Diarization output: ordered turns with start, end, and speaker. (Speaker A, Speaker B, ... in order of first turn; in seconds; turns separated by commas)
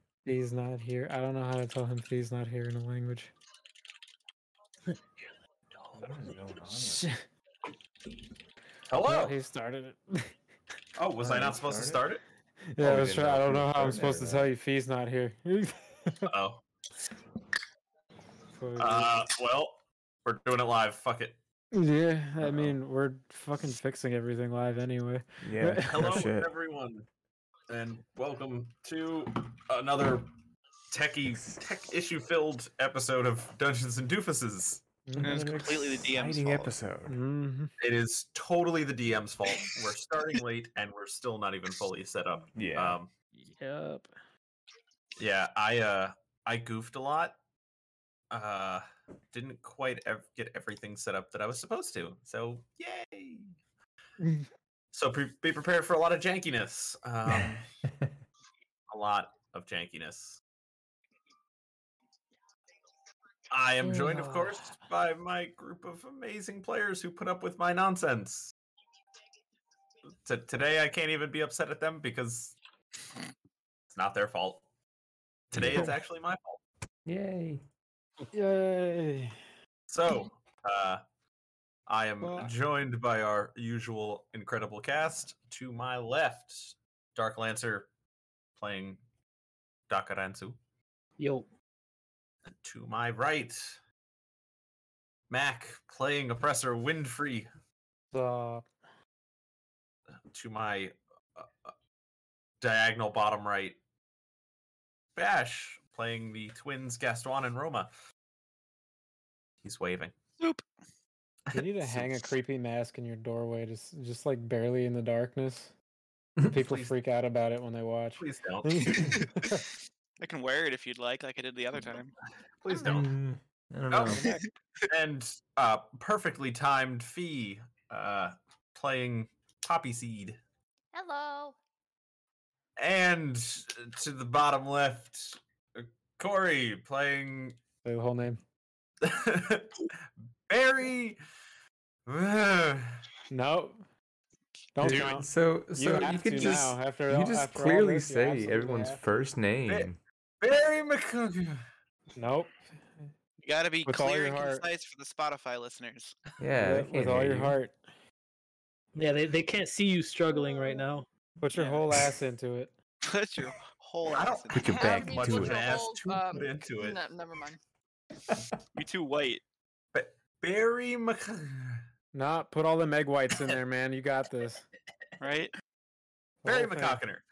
Speaker A: 0.2-3.3, Speaker B: 6.0-7.1, Speaker A: 6.8-7.2, Speaker C: 8.9-9.4, Speaker A: 9.0-10.3, Speaker C: 10.9-12.2, Speaker B: 11.2-12.1, Speaker A: 12.7-16.3, Speaker B: 12.8-14.5, Speaker C: 16.3-16.6, Speaker A: 18.5-19.2, Speaker C: 18.8-21.4, Speaker A: 21.7-26.3, Speaker B: 22.5-22.7, Speaker B: 25.4-26.5, Speaker C: 25.8-27.1, Speaker C: 27.7-30.3, Speaker C: 30.9-34.8, Speaker A: 35.1-35.5, Speaker B: 35.1-37.2, Speaker D: 35.2-36.7, Speaker A: 37.0-37.7, Speaker C: 37.8-43.1, Speaker B: 42.5-43.0, Speaker A: 43.4-44.1, Speaker C: 45.2-47.4, Speaker C: 48.3-53.5, Speaker A: 54.2-54.5, Speaker C: 54.9-57.6, Speaker B: 57.2-58.1, Speaker C: 58.9-60.4, Speaker C: 63.5-68.5, Speaker A: 63.8-64.6, Speaker C: 70.2-72.5, Speaker C: 73.9-74.6, Speaker C: 75.5-76.6, Speaker B: 75.5-76.0, Speaker B: 77.0-77.6, Speaker A: 78.3-79.4, Speaker C: 79.9-81.0, Speaker C: 81.9-87.9, Speaker A: 82.2-82.5, Speaker C: 88.6-89.0, Speaker C: 89.9-90.6, Speaker E: 91.2-91.5, Speaker C: 92.6-93.8, Speaker C: 95.3-97.5, Speaker A: 98.1-98.7, Speaker C: 100.3-101.7, Speaker C: 102.6-103.8, Speaker C: 105.2-107.9, Speaker C: 109.6-110.2, Speaker D: 110.4-110.6, Speaker C: 111.5-112.1, Speaker A: 111.5-115.7, Speaker A: 116.5-119.7, Speaker C: 116.6-116.9, Speaker C: 118.2-119.2, Speaker D: 118.9-119.6, Speaker D: 120.2-122.1, Speaker C: 122.6-123.1, Speaker F: 122.7-123.1, Speaker B: 122.8-124.3, Speaker C: 123.9-124.4, Speaker D: 124.1-124.9, Speaker C: 124.9-130.4, Speaker F: 130.9-131.6, Speaker C: 132.8-137.6, Speaker A: 137.8-138.4, Speaker C: 139.0-139.9, Speaker C: 140.5-141.2, Speaker C: 142.1-143.0, Speaker A: 143.3-143.8, Speaker A: 144.7-149.3, Speaker B: 144.8-150.0, Speaker C: 150.4-151.6, Speaker A: 152.2-153.1, Speaker D: 153.4-156.2, Speaker A: 153.8-154.6, Speaker B: 156.4-157.6, Speaker A: 156.6-157.8, Speaker E: 158.9-161.1, Speaker F: 160.3-160.8, Speaker A: 161.4-162.7, Speaker D: 161.5-161.8, Speaker D: 163.0-164.9, Speaker C: 164.1-167.0, Speaker B: 164.5-165.8, Speaker F: 164.6-167.6, Speaker D: 168.7-169.4, Speaker C: 169.9-171.8, Speaker A: 172.1-174.6, Speaker D: 175.2-175.5, Speaker A: 176.4-177.0, Speaker C: 176.4-177.2